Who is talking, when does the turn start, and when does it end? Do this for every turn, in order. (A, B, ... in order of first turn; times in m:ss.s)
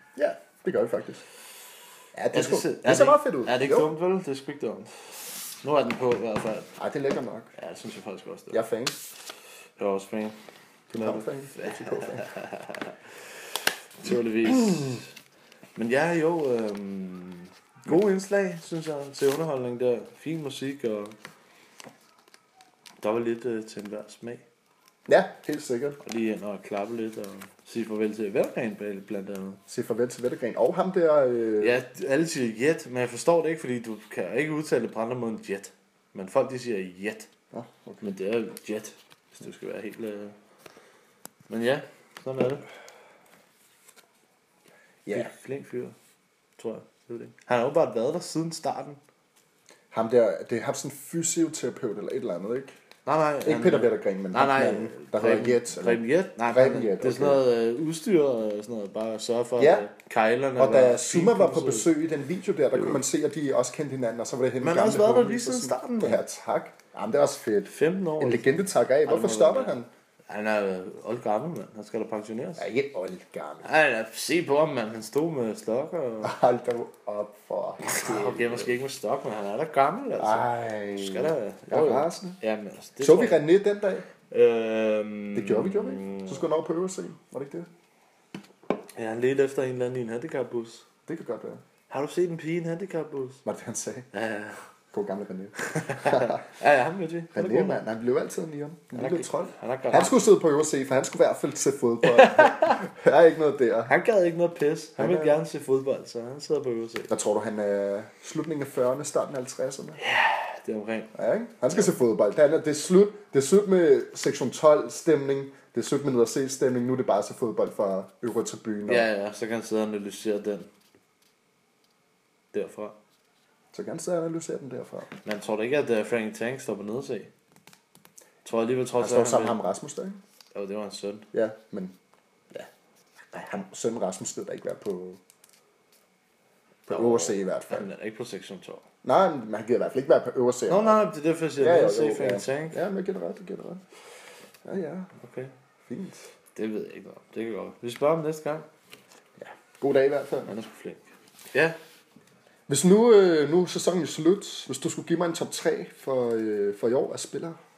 0:00.2-0:01.2 A
0:02.2-0:03.9 A
0:02.3-0:06.7 B
0:06.8-0:07.5 A
0:07.6-0:08.6 B
0:08.5-0:09.0 A
0:09.8-0:10.4 B
0:10.9-0:12.3 A
0:11.0-0:13.0 B
0:14.0-0:15.1 B
0:14.5-0:14.8 A
0:15.8-0:21.2 B
0:23.0-0:24.4 B
0:25.1-0:26.0 A
0:26.0-0:29.6 B
0:29.7-0:31.8 A
0:31.6-0:37.3 B
0:37.5-0:38.1 A
0:38.0-0:40.4 B
0:41.5-0:42.7 B
0:45.0-0:45.3 A
0:45.1-0:46.0 B
0:46.6-0:49.0 B
0:49.9-0:52.7 A
0:53.1-1:01.9 B
0:53.4-0:57.4 A
0:59.6-0:59.9 A
1:00.6-1:09.9 A
1:04.6-1:06.2 B
1:07.7-1:12.7 B
1:12.6-1:13.7 A
1:13.6-1:16.4 B
1:16.2-1:18.7 A
1:17.8-1:23.4 B
1:20.2-1:22.4 A
1:23.0-1:24.1 A
1:24.3-1:26.5 B
1:25.3-1:27.7 A
1:29.0-1:30.9 B
1:31.1-1:31.6 A
1:31.9-1:33.4 B
1:33.4-1:34.1 A
1:34.1-1:34.6 B
1:34.9-1:36.4 A
1:35.7-1:37.8 B
1:37.3-1:43.9 A
1:39.0-1:40.3 B
1:42.0-1:42.8 B
1:43.9-1:47.1 B
1:45.0-1:45.4 A
1:47.1-1:50.0 A
1:50.0-1:51.1 B
1:51.1-1:59.1 A
1:58.9-2:00.7 B
2:02.5-2:03.0 B
2:03.7-2:05.1 A
2:05.2-2:07.3 B
2:08.4-2:09.6 B
2:09.0-2:10.2 A
2:10.5-2:11.3 B
2:11.3-2:12.0 A
2:13.3-2:15.2 A
2:16.9-2:17.9 A
2:16.9-2:18.8 B
2:19.0-2:21.0 A
2:20.7-2:22.8 B
2:21.6-2:23.8 A
2:24.6-2:25.1 A
2:25.2-2:25.5 B
2:25.9-2:26.3 A
2:26.6-2:28.7 B
2:29.4-2:30.5 A
2:30.5-2:31.8 B
2:32.7-2:37.6 A